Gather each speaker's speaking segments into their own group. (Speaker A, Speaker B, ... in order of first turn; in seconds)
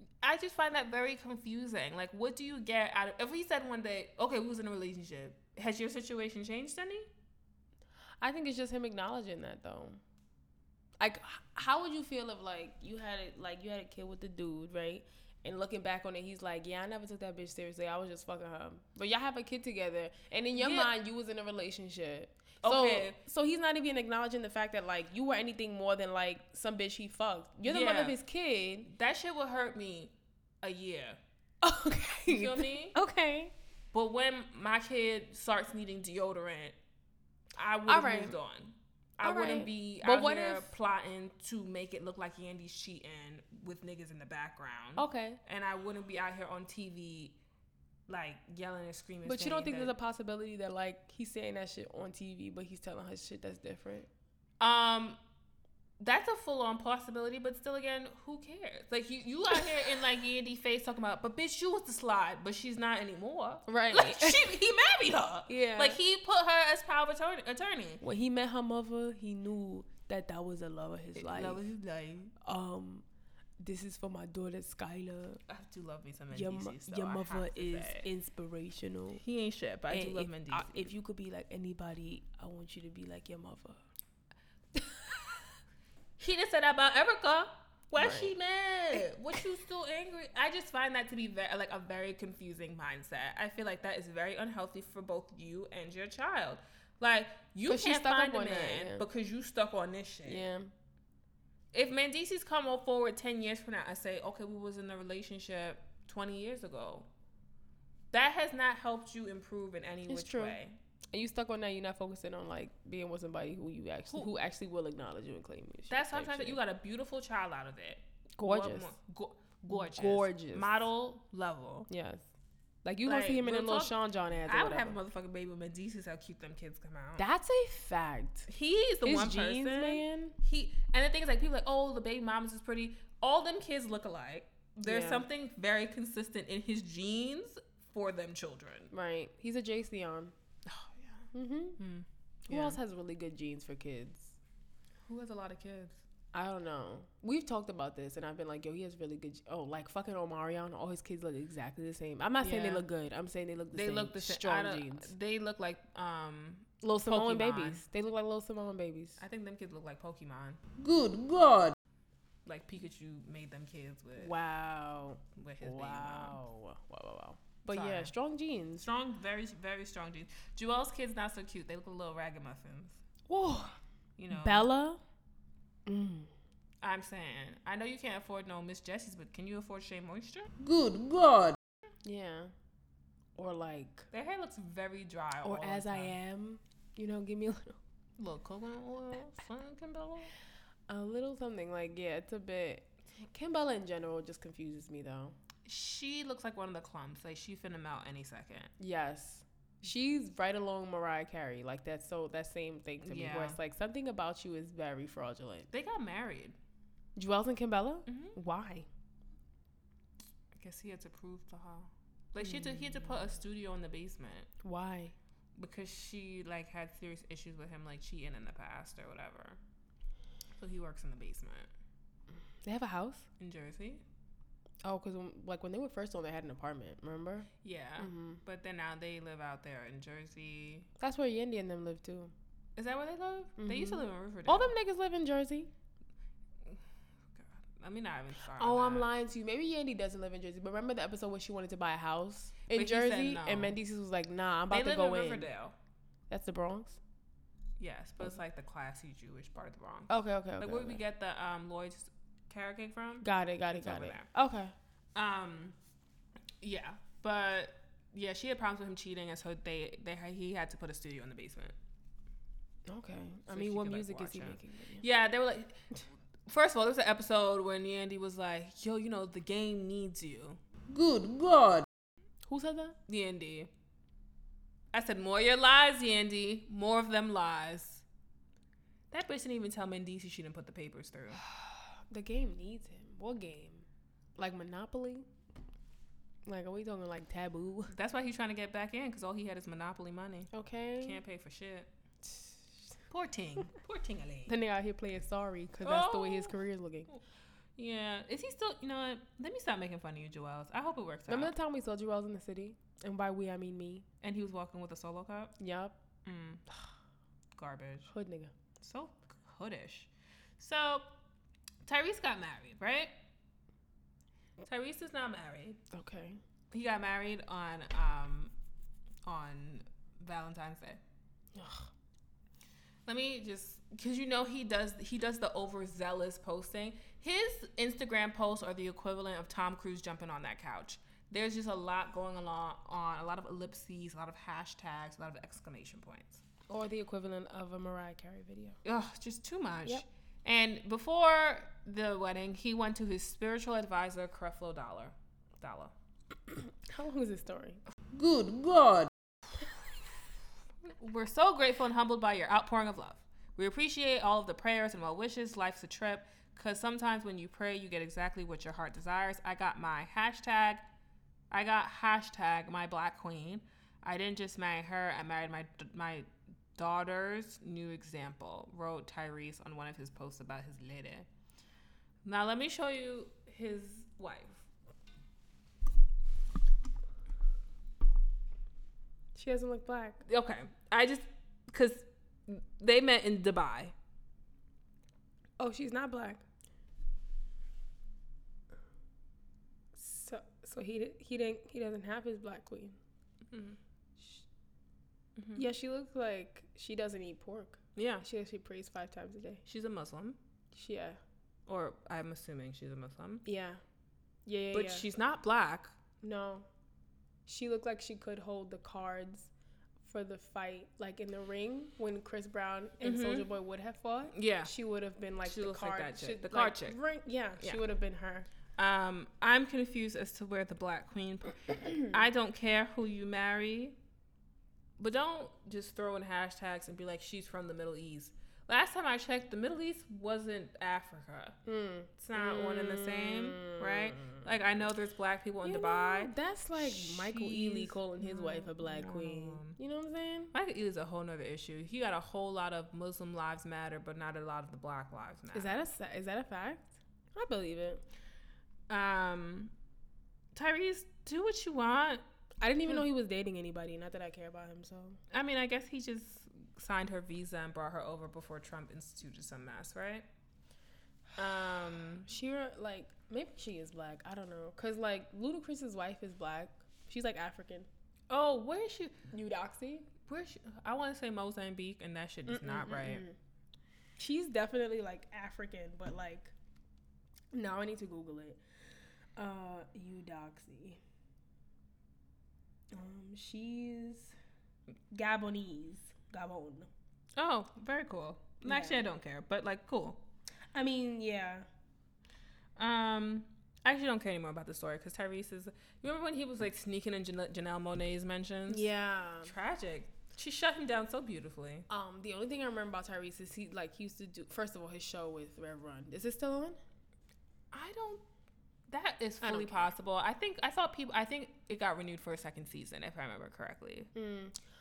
Speaker A: 0.2-7.1, 20.6-20.9, 22.6-23.2, 27.6-28.1, 28.8-31.2, 32.3-33.0, 33.9-36.8, 37.5-47.4, 48.1-49.9, 54.6-55.2, 56.0-68.0, 71.1-72.3, 75.5-78.1, 79.2-80.9, 86.2-100.5, 101.7-107.1, 108.1-110.8, 115.9-121.9, 123.0-123.9, 124.5-127.3, 128.5-138.9, 140.7-142.8, 145.1-146.0, 152.4-152.8, 153.7-157.8, 159.2-160.6, 162.4-164.3, 165.3-166.4, 167.7-168.1, 168.8-173.0, 174.2-174.7, 176.8-180.5, 184.1-186.2, 188.2-190.3, 195.6-198.7, 203.1-203.6, 205.7-206.6, 208.1-208.3, 210.5-214.5, 215.6-219.6, 220.5-221.7, 223.4-224.0, 227.6-230.9, 232.8-234.7, 237.3-239.1, 242.7-243.8, 244.7-245.7, 247.8-254.3, 255.1-255.8, 256.6-261.7, 263.5-265.8, 266.5-270.6, 273.1-273.7, 274.9-278.0, 279.1-281.4, 287.9-291.9, 293.1-294.5, 295.8-296.6, 297.8-301.5, 304.2-305.6, 306.2-306.6, 307.6-308.1, 308.8-311.1, 311.9-313.1, 314.6-315.8, 316.7-318.5, 319.2-321.0, 323.1-336.4, 338.8-345.9, 350.8-360.9, 361.5-371.3, 372.2-374.6, 380.2-383.9, 393.5-393.8, 395.4-395.6, 397.9-398.2, 399.6-400.4, 401.7-403.4, 404.7-405.9, 413.0-413.5, 414.3-414.7, 415.4-417.0, 418.8-424.0, 425.0-431.6, 432.2-439.8, 440.5-445.8, 448.9-449.7, 450.5-452.2, 455.3-460.2, 461.4-462.3, 468.3-469.2, 470.3-473.2, 487.4-490.2, 492.8-498.9, 499.4-501.9, 507.7-508.2, 508.9-514.1
Speaker B: 8.2-10.0, 11.0-28.9, 31.6-33.5, 37.9-38.4, 39.2-40.7, 45.0-45.4, 49.2-54.1, 63.7-64.5, 65.5-66.0, 68.0-71.6, 72.4-73.0, 73.6-75.4, 76.3-79.2, 79.9-83.8, 87.9-88.3, 97.7-99.0, 100.2-100.7, 110.1-110.6, 111.1-116.6, 118.4-118.9, 119.7-120.9, 121.9-122.2, 122.8-125.0, 127.2-128.5, 129.0-130.3, 134.8-135.2, 138.9-140.3, 141.3-141.8, 142.5-144.4, 146.3-155.1, 156.8-159.2, 164.2-168.9, 173.3-173.8, 174.3-175.0, 175.8-176.3, 182.0-182.5, 183.3-184.1, 185.4-187.8, 190.9-195.3, 198.8-205.7, 207.2-208.9, 212.4-213.2, 214.6-215.1, 222.6-223.3, 224.8-228.4, 231.0-232.3, 233.6-235.7, 238.5-245.5, 246.3-247.0, 250.1-251.0, 253.2-254.7, 262.9-265.0, 272.4-273.0, 281.4-285.3, 286.4-287.9, 290.5-291.2, 292.3-292.8, 294.5-297.1, 301.3-304.1, 305.6-306.0, 308.1-308.5, 315.9-316.4, 321.5-321.9, 336.7-338.8, 346.5-347.8, 379.3-380.2, 385.6-386.4, 389.9-393.0, 394.2-394.4, 395.5-399.6, 400.7-401.2, 403.4-403.8, 404.4-405.1, 406.2-406.7, 407.4-409.5, 410.0-418.5, 431.6-434.5, 435.6-440.5, 445.5-448.0, 452.6-455.2, 462.2-467.9, 469.3-470.1, 472.5-473.4, 474.2-476.5, 477.5-478.6, 479.4-481.0, 482.9-484.3, 485.1-486.9, 488.6-489.0, 490.7-491.7, 498.7-499.5, 501.9-506.8, 509.4-509.9, 514.1-514.6
Speaker C: 160.8-161.7, 180.6-181.6, 270.9-271.9, 348.1-349.1